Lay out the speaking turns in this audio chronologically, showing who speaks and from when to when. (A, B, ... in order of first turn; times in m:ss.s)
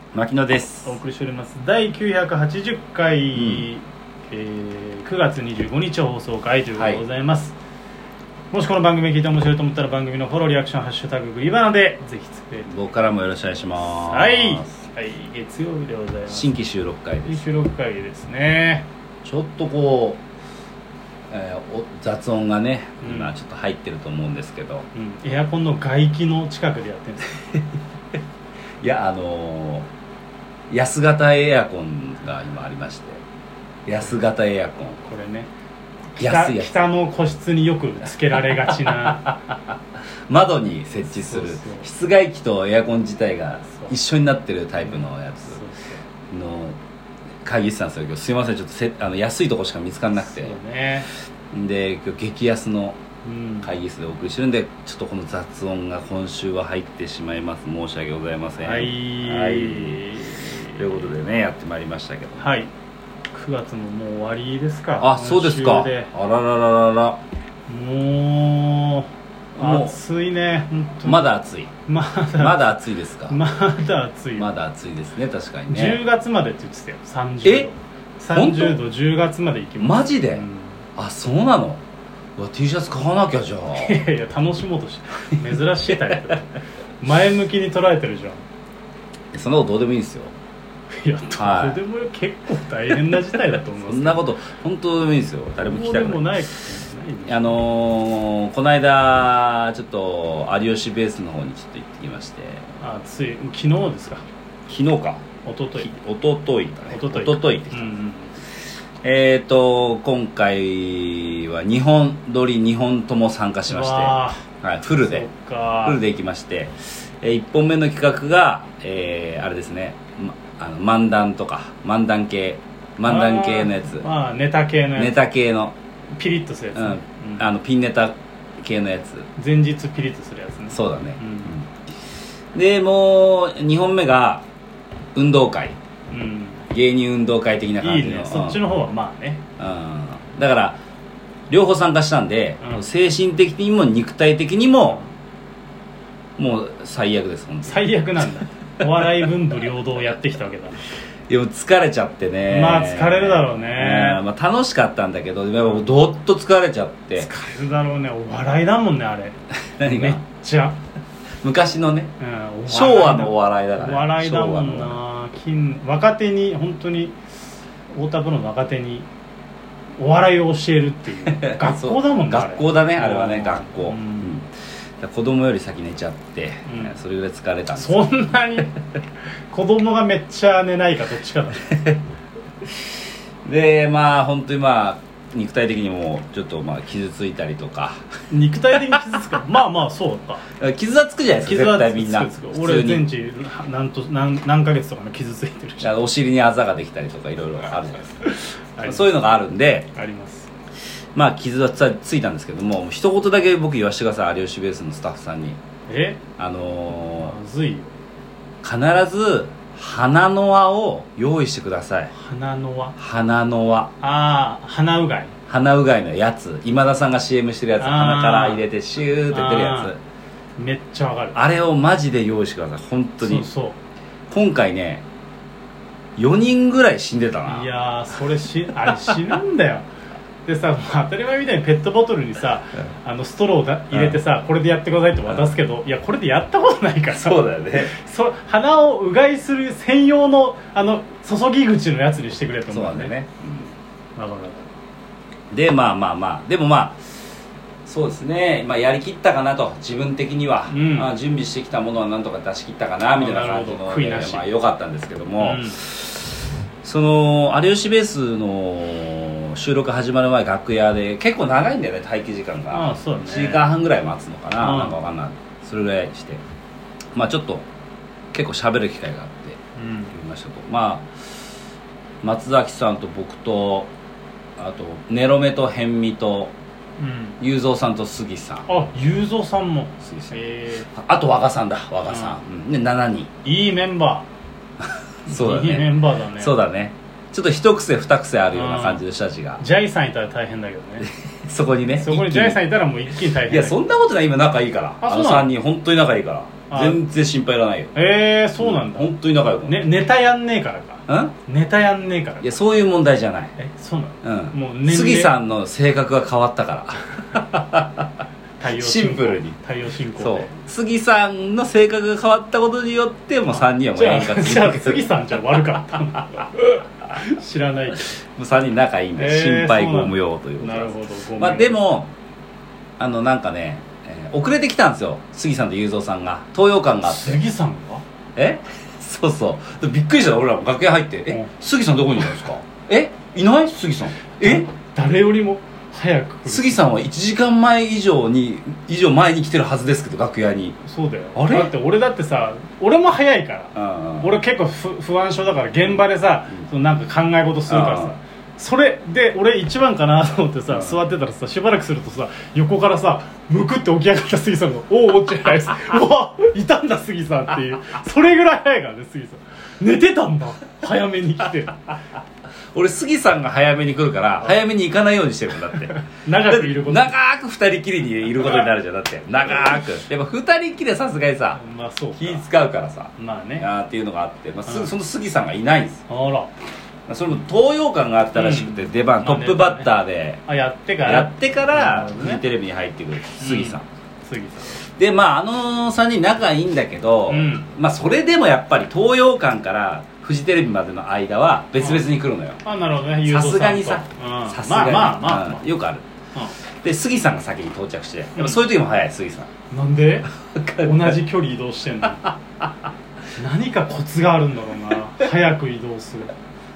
0:00.1-0:01.0 A
0:00.8-0:07.5 B
0:03.3-0:03.7 A
0:06.8-0:07.0 A
0:08.5-0:12.7 B
0:12.7-0:14.7 A
0:13.8-0:16.5 B
0:16.3-0:17.4 A
0:17.2-0:18.8 B
0:19.2-0:20.2 A
0:21.3-0:24.9 A
0:23.0-0:23.3 B
0:24.9-0:27.4 B
0:28.8-0:29.9 A
0:30.7-0:33.2 A
0:33.9-0:35.0 A
0:35.0-0:35.5 B
0:36.2-0:39.3 B
0:36.2-0:36.7 A
0:38.5-0:39.6 A
0:40.3-0:45.6 A
0:41.1-0:41.9 B
0:44.8-0:46.0 B
0:46.3-0:46.8 A
0:47.4-0:50.6 A
0:50.2-0:51.1 B
0:51.5-0:53.0 A
0:53.2-0:53.7 B
0:53.6-1:00.1 A
0:58.6-1:01.1 B
1:00.7-1:02.5 A
1:02.4-1:02.7 B
1:03.3-1:06.1 B
1:05.0-1:07.2 A
1:07.7-1:11.2 B
1:09.6-1:10.0 A
1:11.0-1:11.7 A
1:11.8-1:12.7 B
1:12.4-1:13.4 A
1:13.3-1:14.5 B
1:14.4-1:16.0 A
1:15.7-1:20.8 B
1:17.4-1:17.7 A
1:18.3-1:18.8 A
1:19.8-1:20.4 A
1:21.0-1:21.8 A
1:22.4-1:24.0 A
1:23.7-1:28.4 B
1:29.3-1:30.3 A
1:30.9-1:34.3 B
1:31.3-1:31.8 A
1:33.8-1:36.3 A
1:35.6-1:37.6 B
1:37.3-1:42.6 A
1:42.8-1:44.2 B
1:44.7-1:45.2 A
1:45.4-1:45.9 B
1:45.8-1:47.9 A
1:46.9-1:48.3 B
1:49.0-1:55.2 A
1:53.6-1:56.0 B
1:55.8-2:04.1 A
2:03.0-2:05.2 B
2:05.0-2:05.7 A
2:06.2-2:07.5 B
2:06.7-2:09.3 A
2:09.4-2:11.5 B
2:10.7-2:11.7 A
2:12.5-2:14.4 A
2:15.1-2:15.8 A
2:16.1-2:16.6 B
2:16.7-2:18.6 A
2:17.8-2:19.4 B
2:19.6-2:20.8 A
2:21.5-2:25.0 A
2:26.4-2:27.9 A
2:27.6-2:30.8 B
2:31.3-2:37.3 A
2:32.5-2:34.2 B
2:37.2-2:40.8 B
2:39.8-2:40.2 A
2:41.4-2:42.1 A
2:42.2-2:47.1 B
2:42.7-2:45.0 A
2:47.9-2:49.1 B
2:50.0-2:54.4 B
2:51.2-2:54.5 A
2:55.0-2:58.4 A
2:56.6-2:56.9 B
2:57.8-2:58.7 B
2:59.5-3:01.8 B
3:03.4-3:08.0 A
3:08.3-3:10.4 B
3:10.6-3:13.1 A
3:11.4-3:16.0 B
3:15.8-3:18.3 A
3:18.2-3:19.1 B
3:18.8-3:19.9 A
3:19.9-3:20.5 B
3:21.1-3:25.6 A
3:25.9-3:26.2 B
3:26.4-3:27.3 A
3:26.9-3:27.9 B
3:28.6-3:32.1 A
3:32.1-3:33.0 B
3:33.0-3:33.9 A
3:34.0-3:35.3 B
3:35.5-3:40.0 A
3:37.8-3:38.6 B
3:39.3-3:39.9 B
3:40.6-3:41.4 B
3:41.3-3:43.5 A
3:43.2-3:43.8 B
3:44.3-3:45.0 A
3:46.2-3:47.7 A
3:47.4-3:49.8 B
3:48.8-3:49.2 A
3:50.4-4:03.1 B
3:53.9-3:54.2 A
3:57.1-3:57.9 A
4:02.7-4:03.7 A
4:04.2-4:04.7 B
4:05.5-4:07.0 A
4:07.8-4:26.4 A
4:10.7-4:11.1 B
4:13.1-4:14.4 B
4:15.4-4:15.8 B
4:22.7-4:23.6 B
4:24.6-4:25.0 B
4:27.1-4:27.6 A
4:28.3-4:29.6 A
4:29.8-4:30.1 B
4:30.1-4:31.1 A
4:32.2-4:33.9 A
4:34.6-4:36.5 A
4:37.0-4:37.4 B
4:37.4-4:38.7 A
4:38.6-4:40.9 B
4:40.0-4:40.4 A
4:40.9-4:43.3 A
4:42.1-4:42.4 B
4:43.4-4:44.2 B
4:45.2-4:49.6 A
4:45.2-4:46.6 B
4:48.5-4:49.0 B
4:49.6-4:51.1 B
4:51.4-4:52.6 A
4:51.9-4:53.8 B
4:53.2-4:57.9 A
4:55.0-4:55.5 B
4:56.7-4:57.0 B
4:57.9-4:59.1 B
4:58.6-4:59.8 A
4:59.6-5:02.5 B
5:01.1-5:01.3 A
5:02.4-5:03.6 A
5:03.6-5:05.3 B
5:04.2-5:08.0 A
5:08.6-5:10.5 B
5:08.7-5:09.6 A
5:10.2-5:15.1 A
5:13.5-5:18.1 B
5:18.4-5:22.1 A
5:19.2-5:21.8 B
5:23.0-5:27.4 A
5:27.1-5:28.0 B
5:28.4-5:34.7 A
5:34.4-5:36.9 B
5:36.5-5:40.8 A
5:40.8-6:01.9 B
5:41.3-5:41.7 A
5:43.7-5:44.3 A
5:47.7-5:48.1 A
5:50.7-5:51.0 A
6:02.7-6:11.6 A
6:06.0-6:07.1 B
6:11.5-6:12.4 B
6:12.2-6:16.0 A
6:13.2-6:13.7 B
6:14.6-6:14.9 B
6:16.1-6:16.5 B
6:17.1-6:20.4 A
6:18.3-6:19.9 B
6:20.4-6:22.4 B
6:21.0-6:23.8 A
6:23.4-6:24.8 B
6:24.8-6:32.6 A
6:27.3-6:27.7 B
6:31.8-6:32.1 B
6:32.6-6:35.6 B
6:33.2-6:36.0 A
6:36.8-6:39.5 A
6:39.7-6:42.3 B
6:40.5-6:41.1 A
6:43.4-6:46.3 B